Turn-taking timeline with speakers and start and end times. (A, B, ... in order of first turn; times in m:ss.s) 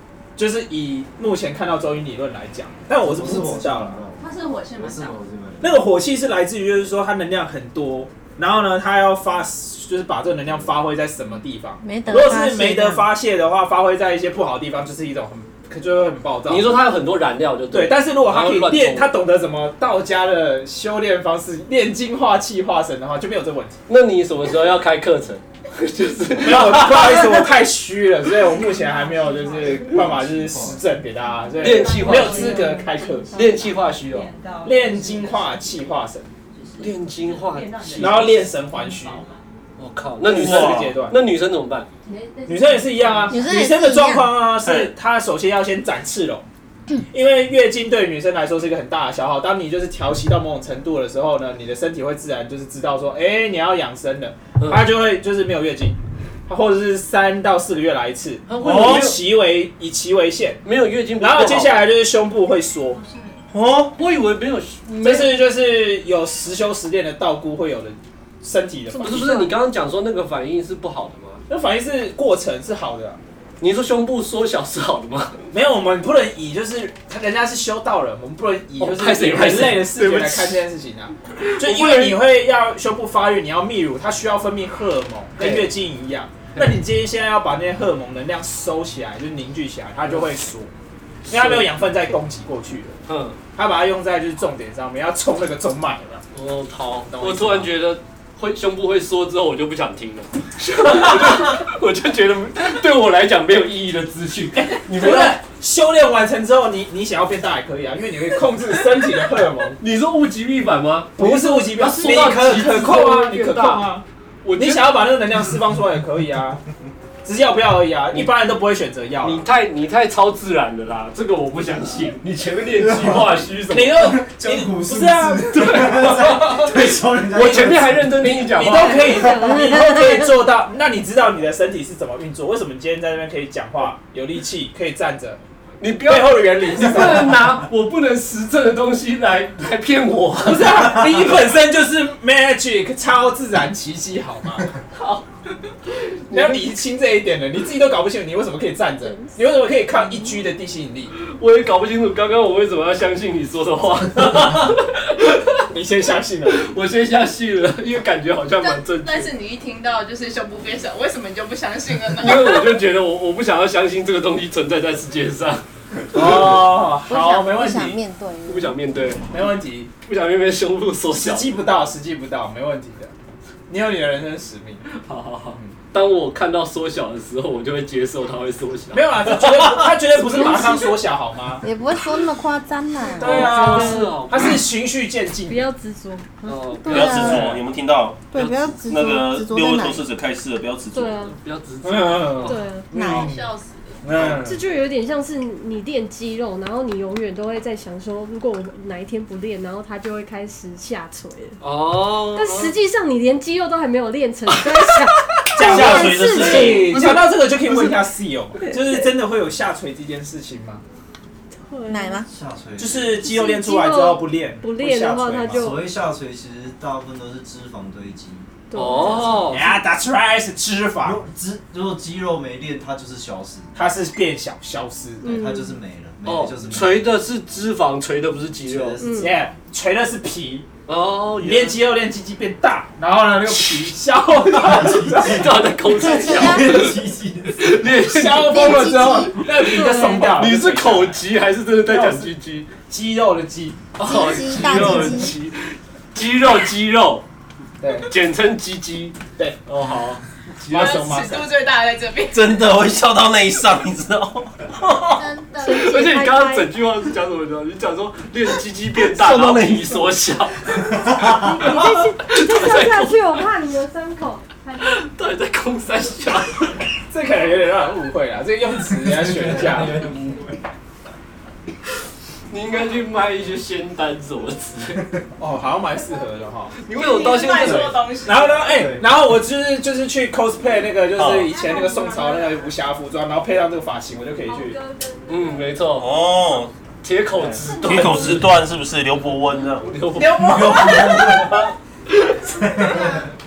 0:00.4-0:04.0 A
0:03.0-0:05.9 B
0:04.2-0:05.2 C
0:05.6-0:16.8 A
0:11.8-0:13.1 D
0:16.5-0:19.2 E
0:17.7-0:23.8 A
0:23.9-0:27.2 E
0:26.4-0:33.3 A
0:28.5-0:35.9 C
0:29.9-0:30.8 B
0:31.6-0:32.7 E
0:33.3-0:34.3 E
0:34.6-0:36.3 A
0:36.5-0:39.4 C
0:36.8-0:38.3 E
0:38.0-0:39.3 A
0:39.8-0:41.9 E
0:40.3-0:41.2 A
0:40.3-0:41.0 F
0:42.1-0:43.4 C
0:42.5-0:46.4 A
0:43.3-0:44.4 D
0:44.6-0:44.9 F
0:47.1-1:00.6 A
0:54.6-0:54.9 E
0:58.5-0:59.2 E
0:58.6-0:59.1 F
1:00.6-1:01.8 E
1:01.2-1:03.0 A
1:03.0-1:03.4 C
1:03.5-1:03.9 F
1:04.0-1:05.4 E
1:04.9-1:09.2 A
1:08.9-1:09.6 G
1:09.0-1:11.4 E
1:11.5-1:13.2 A
1:13.6-1:15.4 E
1:15.5-1:30.7 A
1:18.8-1:20.6 E
1:21.4-1:22.2 E
1:25.4-1:25.7 E
1:31.3-1:31.8 E
1:31.3-1:33.0 A
1:33.1-1:33.4 E
1:33.6-1:36.2 A
1:36.3-1:45.4 E
1:37.1-1:37.7 A
1:44.5-1:49.8 A
1:49.8-1:53.9 E
1:51.2-1:54.0 A
1:54.4-1:55.0 E
1:54.6-1:56.6 A
1:57.2-1:59.4 A
1:58.1-1:58.4 E
1:59.2-2:04.2 E
2:02.8-2:03.4 B
2:03.7-2:06.4 A
2:04.0-2:08.5 B
2:05.5-2:09.2 E
2:08.5-2:15.4 A
2:08.6-2:10.3 G
2:15.8-2:21.0 E
2:16.0-2:17.7 A
2:20.4-2:24.7 A
2:25.0-2:25.3 E
2:26.3-2:31.1 A
2:26.3-2:26.6 E
2:29.1-2:29.4 G
2:30.0-2:30.3 G
2:31.2-2:35.6 E
2:35.7-2:36.6 A
2:36.5-2:39.3 E
2:38.6-2:42.8 C
2:42.2-2:45.6 E
2:46.1-2:48.0 A
2:47.1-2:48.7 D
2:48.4-2:49.2 E
2:49.3-2:49.9 A
2:50.0-2:51.5 E
2:51.1-2:53.1 A
2:53.7-2:54.8 A
2:54.9-2:59.4 E
2:58.9-3:01.6 A
3:00.2-3:01.0 D
3:01.6-3:03.5 D
3:03.2-3:04.6 E
3:03.2-3:05.7 A
3:03.4-3:04.2 G
3:05.5-3:06.3 G
3:06.4-3:07.6 E
3:06.8-3:07.6 D
3:06.9-3:08.3 F
3:07.2-3:07.5 A
3:08.3-3:10.0 D
3:08.3-3:09.2 E
3:08.9-3:11.3 F
3:10.9-3:11.4 G
3:11.2-3:12.6 E
3:11.8-3:13.5 A
3:12.4-3:12.9 G
3:12.9-3:13.3 D
3:12.9-3:14.0 C
3:14.0-3:14.6 A
3:14.2-3:21.6 G
3:21.6-3:22.7 E
3:22.3-3:27.0 G
3:25.6-3:26.0 E
3:25.6-3:30.8 A
3:25.6-3:27.0 F
3:28.7-3:29.0 G
3:31.7-3:32.2 G
3:31.9-3:32.3 D
3:32.3-3:33.2 B
3:32.8-3:35.7 A
3:33.2-3:35.9 G
3:35.5-3:38.5 B
3:38.7-3:39.6 G
3:38.7-3:39.7 E
3:39.5-3:41.2 A
3:41.0-3:43.7 B
3:43.7-3:45.3 A
3:45.2-3:45.8 G
3:45.2-3:47.2 B
3:46.2-3:49.0 E
3:48.6-3:49.4 B
3:49.0-3:49.4 G
3:49.2-3:50.7 A
3:50.9-3:51.8 E
3:51.4-3:55.6 A
3:54.5-3:57.9 B
3:55.1-3:57.0 E
3:56.0-3:56.8 D
3:57.6-3:58.9 E
3:57.9-4:01.2 A
3:58.4-3:59.5 D
3:59.6-4:00.4 G
3:59.8-4:02.7 E
4:01.8-4:02.4 A
4:02.9-4:03.9 A
4:04.0-4:07.3 E
4:04.0-4:05.4 D
4:04.8-4:05.1 A
4:07.8-4:08.1 A
4:08.1-4:10.9 E
4:10.7-4:11.5 A
4:10.7-4:12.7 C
4:12.3-4:15.2 F
4:15.2-4:15.5 C
4:15.5-4:16.7 G
4:15.6-4:23.3 E
4:19.0-4:20.2 F
4:21.0-4:25.0 G
4:24.8-4:26.8 E
4:27.1-4:30.0 A
4:28.9-4:30.3 B
4:29.7-4:30.4 E
4:32.5-4:35.1 E
4:35.4-4:36.8 A
4:36.9-4:38.7 C
4:36.9-4:38.0 E
4:37.3-4:44.8 A
4:38.6-4:39.0 B
4:41.2-4:41.5 F
4:41.5-4:42.5 C
4:44.4-4:45.9 G
4:45.3-4:46.2 E
4:45.9-4:46.7 F
4:47.0-4:48.6 E
4:47.4-4:47.7 A
4:47.8-4:50.0 F
4:49.8-4:52.6 E
4:50.2-4:51.1 A
4:50.2-4:51.4 C
4:50.6-4:51.5 B
4:52.6-4:53.1 B
4:52.9-4:53.1 C